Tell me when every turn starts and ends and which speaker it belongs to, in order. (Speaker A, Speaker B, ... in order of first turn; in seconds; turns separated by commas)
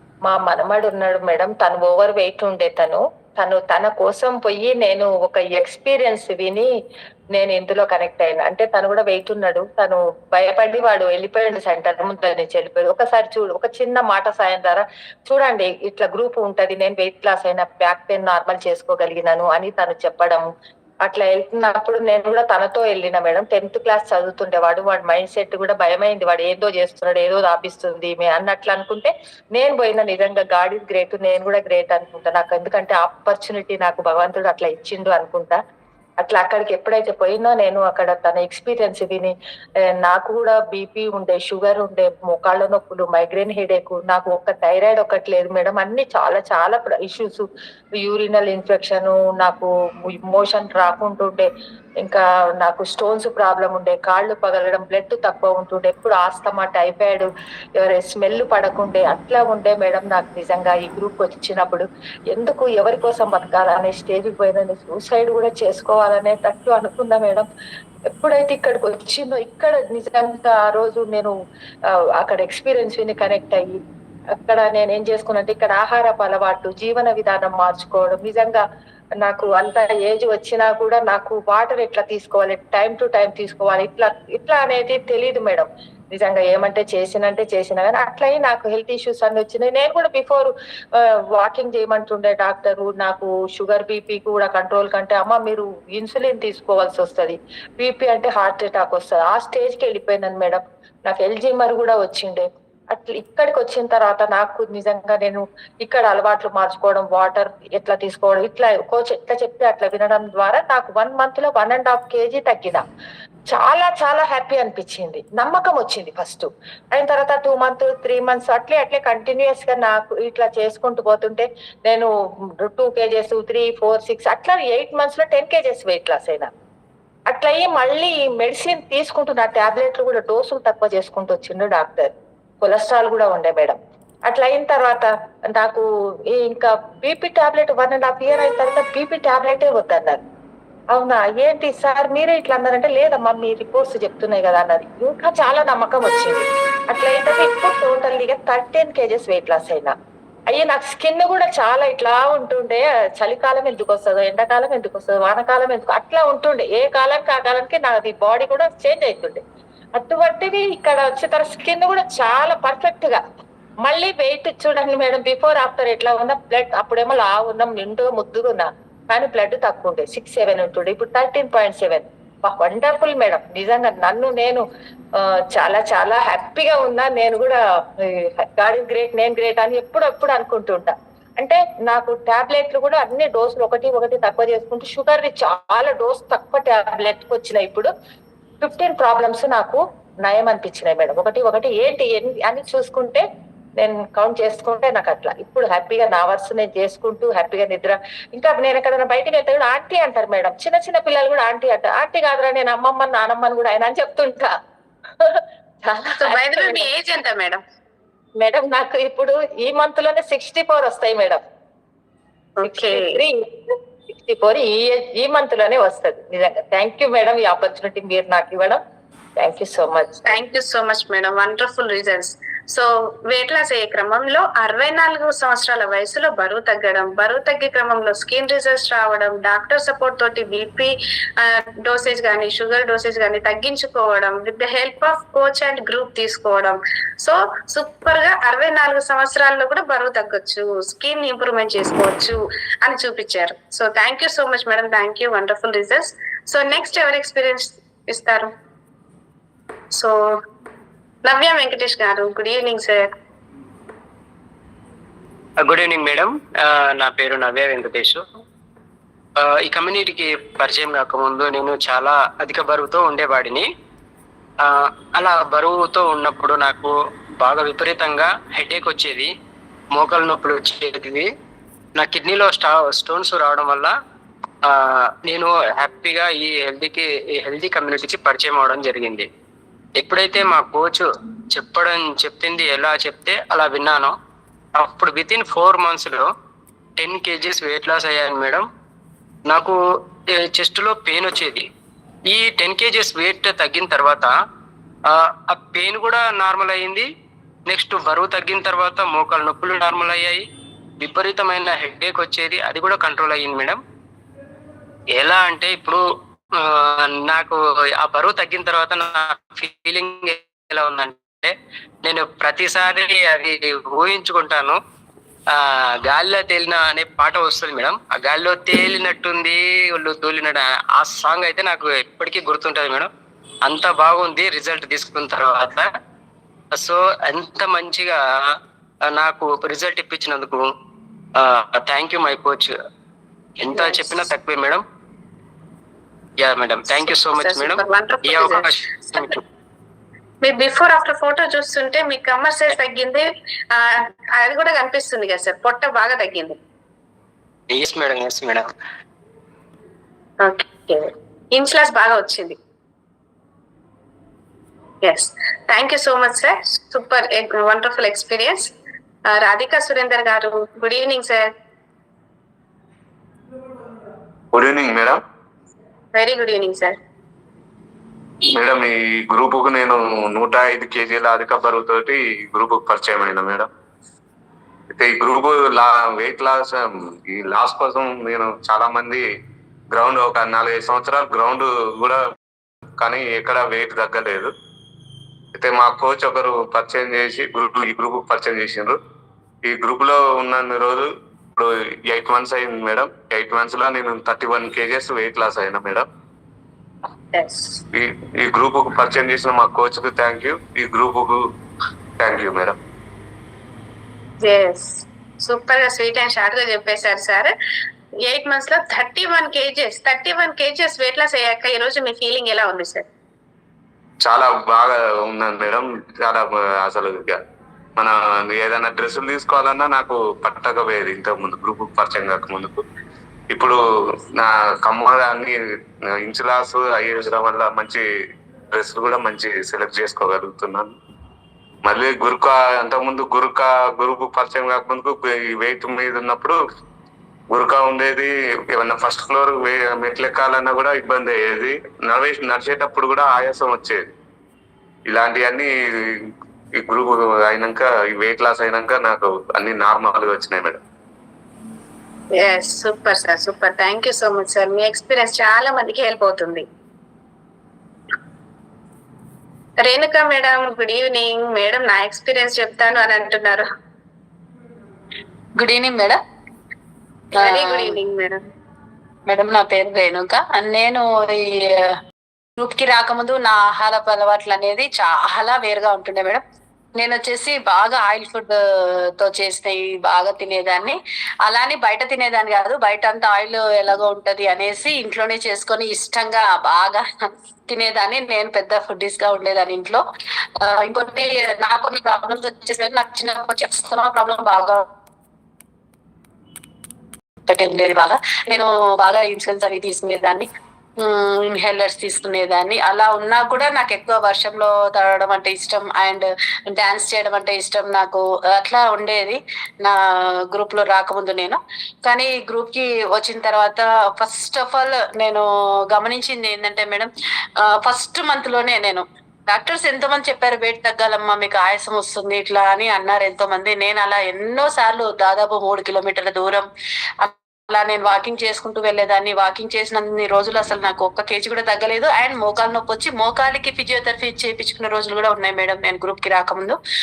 Speaker A: 0.2-6.7, Speaker A: 7.3-20.5, Speaker A: 21.0-35.6, Speaker A: 36.2-39.3, Speaker A: 40.0-51.5, Speaker A: 52.0-67.5, Speaker A: 68.1-71.3, Speaker A: 71.9-73.8, Speaker A: 74.3-78.6, Speaker A: 79.2-112.8, Speaker A: 113.5-122.1, Speaker A: 122.6-126.5, Speaker A: 127.3-140.2, Speaker A: 140.9-149.9, Speaker A: 150.5-159.4, Speaker A: 159.9-163.2, Speaker A: 163.8-174.6, Speaker A: 175.2-187.9, Speaker A: 188.6-193.2, Speaker A: 193.8-204.5, Speaker A: 205.2-206.8, Speaker B: 206.2-207.6, Speaker A: 208.4-211.4, Speaker B: 212.6-213.2, Speaker A: 212.6-218.8, Speaker A: 219.4-220.3, Speaker B: 220.2-248.5, Speaker B: 251.2-253.1, Speaker C: 255.6-258.2, Speaker C: 259.4-263.7, Speaker C: 264.6-269.3, Speaker C: 269.9-271.3, Speaker C: 272.0-273.9, Speaker C: 274.7-279.3, Speaker C: 280.0-284.1, Speaker C: 284.8-286.3, Speaker C: 287.0-288.7, Speaker C: 289.5-289.8, Speaker C: 290.3-291.6, Speaker C: 292.3-294.3, Speaker C: 295.1-297.1, Speaker C: 297.7-300.4, Speaker C: 301.0-303.8, Speaker C: 305.2-306.0, Speaker C: 306.6-314.8, Speaker C: 315.5-323.1, Speaker C: 323.7-325.9, Speaker C: 326.7-328.2, Speaker C: 329.1-330.6, Speaker C: 331.4-332.7, Speaker C: 333.6-334.8, Speaker B: 333.7-334.1, Speaker C: 336.4-339.4, Speaker B: 336.9-339.4, Speaker B: 340.4-346.6, Speaker C: 347.7-348.7, Speaker B: 350.4-352.6, Speaker B: 355.0-358.7, Speaker B: 359.3-361.5, Speaker D: 364.5-365.2, Speaker B: 366.1-367.0, Speaker D: 368.6-373.7, Speaker D: 374.9-379.2, Speaker D: 379.9-382.2, Speaker D: 383.0-384.5, Speaker D: 385.5-389.0, Speaker D: 389.6-396.1, Speaker B: 397.3-397.8, Speaker D: 397.9-401.4, Speaker D: 402.2-402.8, Speaker B: 404.4-407.5, Speaker B: 408.2-413.0, Speaker D: 414.2-417.4, Speaker D: 418.0-422.8, Speaker D: 423.5-423.8, Speaker D: 424.4-425.6, Speaker D: 426.1-428.0, Speaker D: 428.7-430.9, Speaker D: 431.9-436.6, Speaker D: 437.5-444.0, Speaker D: 445.1-446.2, Speaker D: 446.8-450.8, Speaker B: 452.4-456.6, Speaker B: 459.8-463.7, Speaker E: 465.6-466.2, Speaker E: 467.4-468.0, Speaker B: 467.4-468.4, Speaker E: 469.3-471.9, Speaker E: 472.6-476.4, Speaker E: 477.0-478.6, Speaker E: 479.2-490.0, Speaker E: 490.6-494.8, Speaker E: 497.5-500.5, Speaker E: 501.0-510.0, Speaker E: 510.5-517.1, Speaker E: 517.6-526.7, Speaker E: 527.2-536.8